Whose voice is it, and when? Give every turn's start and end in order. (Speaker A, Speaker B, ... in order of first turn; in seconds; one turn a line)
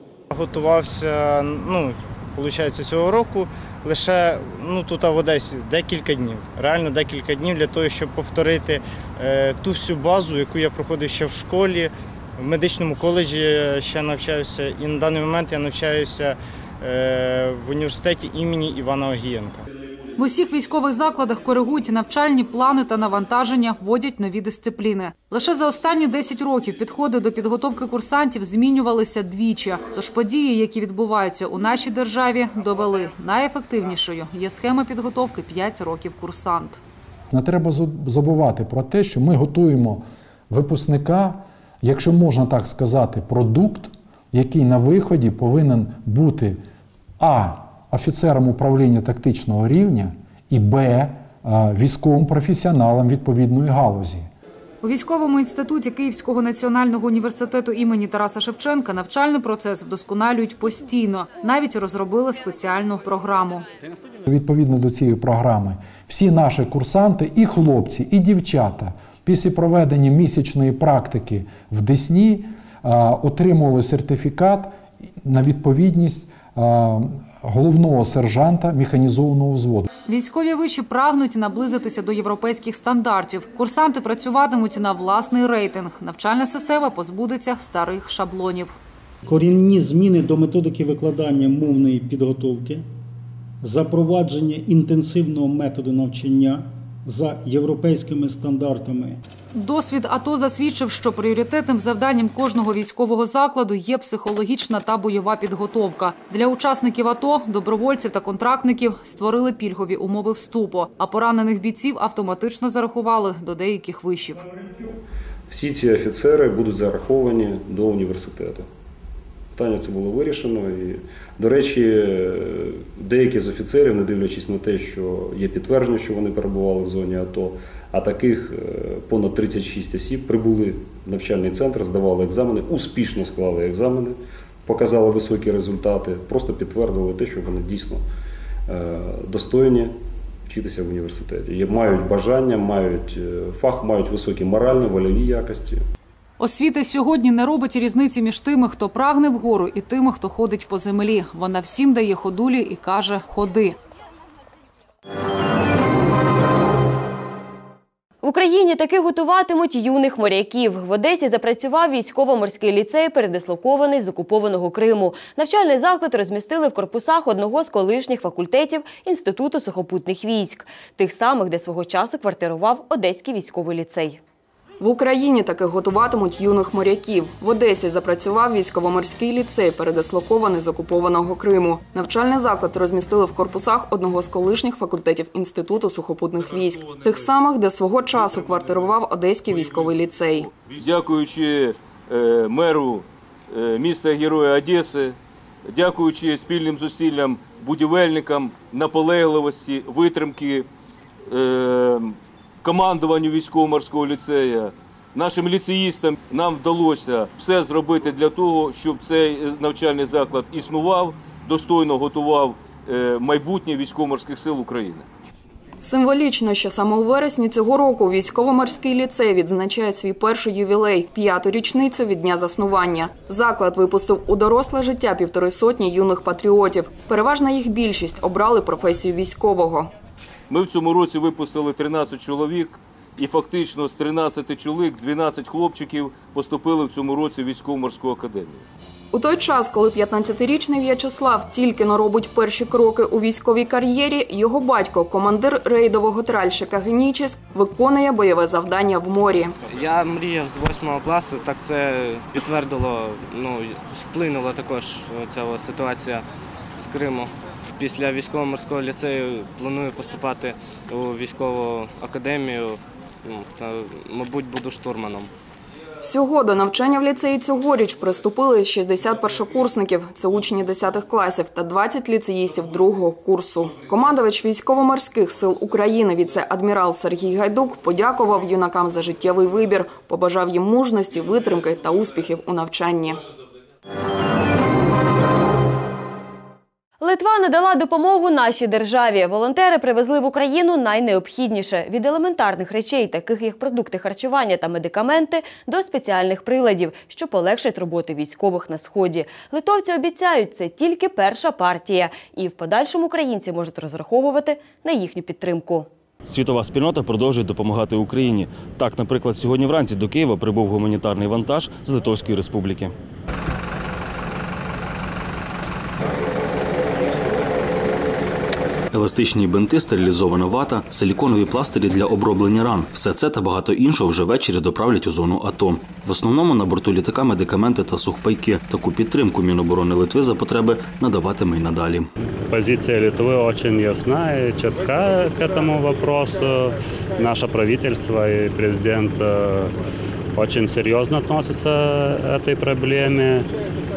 Speaker A: 0.3-19.6
Speaker B: 20.2-36.8
Speaker C: 37.3-46.6
Speaker C: 47.2-54.3
Speaker B: 54.8-63.6
Speaker C: 64.2-79.9
Speaker B: 80.0-88.7
Speaker D: 89.2-92.8
Speaker D: 93.6-99.2
Speaker B: 99.5-114.5
Speaker E: 115.5-118.7
Speaker E: 119.5-138.0
Speaker E: 138.7-139.9
Speaker E: 140.5-145.8
Speaker B: 146.4-153.8
Speaker F: 158.2-174.2
Speaker G: 174.8-190.5
Speaker H: 190.5-200.7
Speaker H: 201.3-215.1
Speaker G: 215.8-229.9
Speaker H: 230.5-238.7
Speaker G: 239.1-249.6
Speaker I: 249.7-256.2
Speaker I: 256.8-257.3
Speaker I: 257.8-265.3
Speaker G: 266.0-283.2
Speaker F: 287.0-305.9
Speaker J: 306.2-312.9
Speaker J: 318.9-332.1
Speaker K: 332.4-339.8
Speaker K: 340.3-343.5